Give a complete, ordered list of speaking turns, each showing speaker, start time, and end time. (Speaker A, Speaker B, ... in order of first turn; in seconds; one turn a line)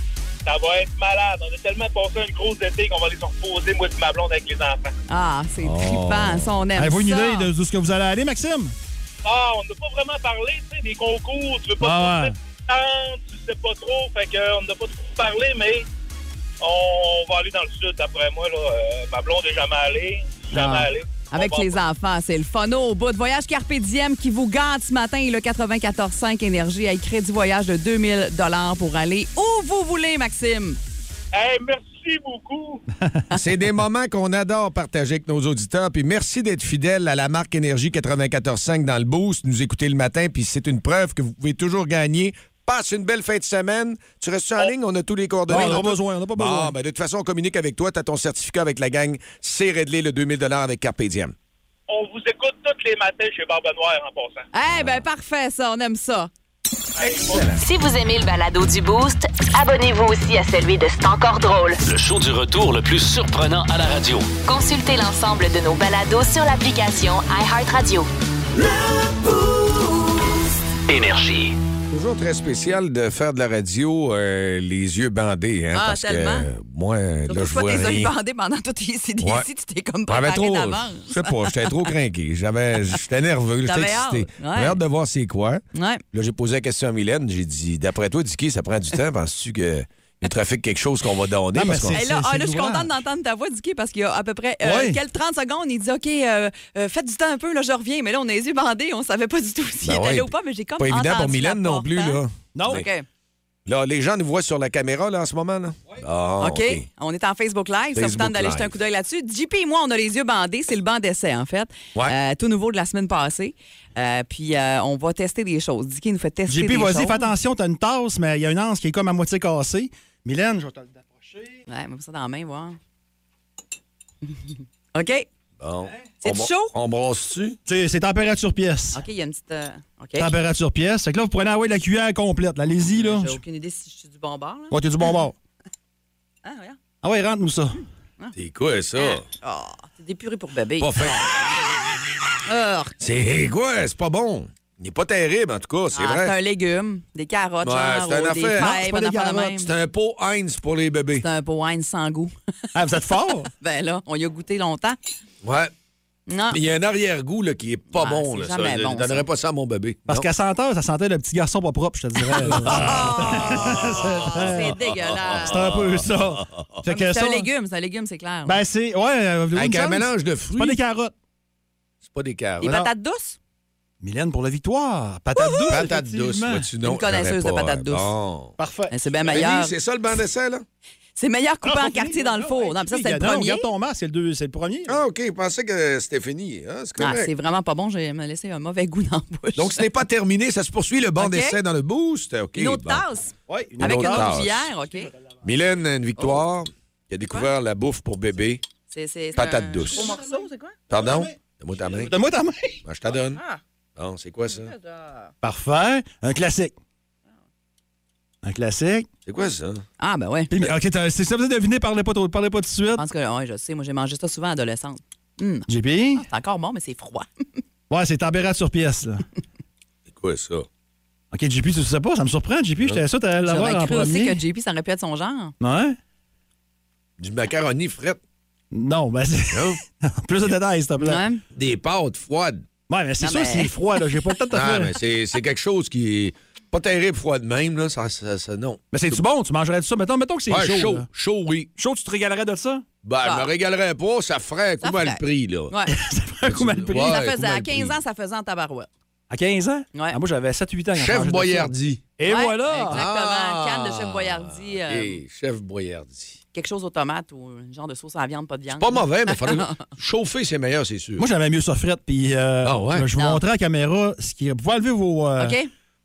Speaker A: 0.4-4.9
Speaker B: 5.1-7.5
Speaker C: 5.6-6.5
Speaker D: 6.8-8.7
Speaker A: 9.2-15.8
Speaker D: 11.8-12.3
Speaker A: 16.6-21.8
Speaker B: 21.3-30.8
Speaker A: 31.3-32.8
Speaker C: 33.3-51.3
Speaker D: 45.5-46.7
Speaker A: 51.9-54.4
Speaker B: 54.5-56.3
Speaker C: 57.0-57.6
Speaker A: 57.0-57.5
Speaker E: 57.5-61.8
Speaker F: 61.9-64.3
Speaker E: 64.5-68.1
Speaker F: 70.9-71.6
Speaker C: 71.9-78.1
Speaker B: 75.7-76.5
Speaker B: 77.3-81.8
Speaker C: 80.1-92.0
Speaker B: 83.6-84.8
Speaker B: 85.7-86.0
Speaker D: 91.5-93.0
Speaker B: 91.9-102.2
Speaker D: 94.6-95.0
Speaker C: 99.8-102.9
Speaker D: 102.5-102.8
Speaker B: 102.7-103.0
Speaker C: 103.7-106.8
Speaker B: 106.4-117.2
Speaker C: 107.9-108.7
Speaker D: 116.5-121.6
Speaker B: 121.7-122.8
Speaker B: 124.9-125.3
Speaker C: 125.6-127.6
Speaker B: 126.2-126.7
Speaker D: 127.7-129.0
Speaker B: 128.9-130.3
Speaker D: 130.2-133.4
Speaker B: 132.9-135.1
Speaker D: 134.7-135.3
Speaker B: 136.4-136.8
Speaker D: 137.0-137.8
Speaker C: 138.3-139.2
Speaker B: 138.9-141.3
Speaker C: 140.8-141.2
Speaker B: 142.4-142.9
Speaker C: 143.0-146.3
Speaker B: 145.9-149.7
Speaker C: 147.6-151.2
Speaker D: 148.7-149.4
Speaker B: 151.2-152.3
Speaker D: 152.7-153.5
Speaker B: 153.6-155.0
Speaker C: 155.4-155.7
Speaker B: 156.3-156.6
Speaker C: 156.5-160.2
Speaker B: 157.9-159.3
Speaker D: 160.1-164.8
Speaker C: 162.4-164.5
Speaker B: 162.5-165.8
Speaker C: 165.1-166.7
Speaker D: 165.3-167.5
Speaker B: 166.8-168.6
Speaker D: 168.4-171.1
Speaker C: 169.5-170.8
Speaker C: 172.0-172.9
Speaker B: 172.6-173.4
Speaker D: 174.0-176.7
Speaker B: 175.3-175.7
Speaker C: 175.7-178.6
Speaker B: 176.8-178.1
Speaker D: 178.6-178.9
Speaker B: 178.9-179.7
Speaker C: 179.3-180.6
Speaker B: 181.2-183.7
Speaker D: 181.6-185.0
Speaker C: 184.9-187.3
Speaker B: 187.0-189.8
Speaker C: 189.6-193.0
Speaker B: 191.2-191.6
Speaker B: 192.6-195.1
Speaker D: 193.5-194.3
Speaker C: 193.8-194.7
Speaker C: 195.4-198.6
Speaker B: 196.2-196.4
Speaker B: 198.9-200.7
Speaker C: 199.3-200.2
Speaker D: 200.1-200.4
Speaker C: 200.9-202.1
Speaker D: 200.9-201.3
Speaker D: 201.8-202.8
Speaker C: 202.8-203.4
Speaker B: 203.3-203.6
Speaker C: 203.9-204.7
Speaker B: 204.5-205.3
Speaker D: 205.4-206.7
Speaker D: 208.4-209.1
Speaker C: 209.2-209.8
Speaker B: 210.0-210.5
Speaker D: 210.5-213.0
Speaker B: 212.9-217.3
Speaker D: 215.7-216.2
Speaker D: 217.9-219.2
Speaker C: 220.1-220.7
Speaker D: 221.3-224.4
Speaker B: 223.4-225.5
Speaker D: 225.6-226.0
Speaker C: 227.2-228.2
Speaker D: 228.7-231.2
Speaker C: 229.5-229.8
Speaker B: 231.0-231.4
Speaker C: 231.5-232.7
Speaker D: 232.9-235.0
Speaker B: 233.2-233.7
Speaker C: 234.5-239.2
Speaker D: 238.9-241.1
Speaker C: 240.5-241.7
Speaker D: 241.8-242.8
Speaker C: 243.0-245.7
Speaker B: 243.2-243.5
Speaker B: 244.8-245.9
Speaker D: 245.9-247.2
Speaker C: 246.4-248.0
Speaker B: 246.9-248.9
Speaker D: 249.3-253.0
Speaker B: 249.9-250.2
Speaker C: 250.9-252.0
Speaker B: 252.2-255.2
Speaker C: 252.9-256.4
Speaker B: 256.5-259.8
Speaker C: 258.8-261.2
Speaker D: 261.2-265.6
Speaker C: 262.6-263.1
Speaker B: 263.1-263.4
Speaker B: 265.4-265.7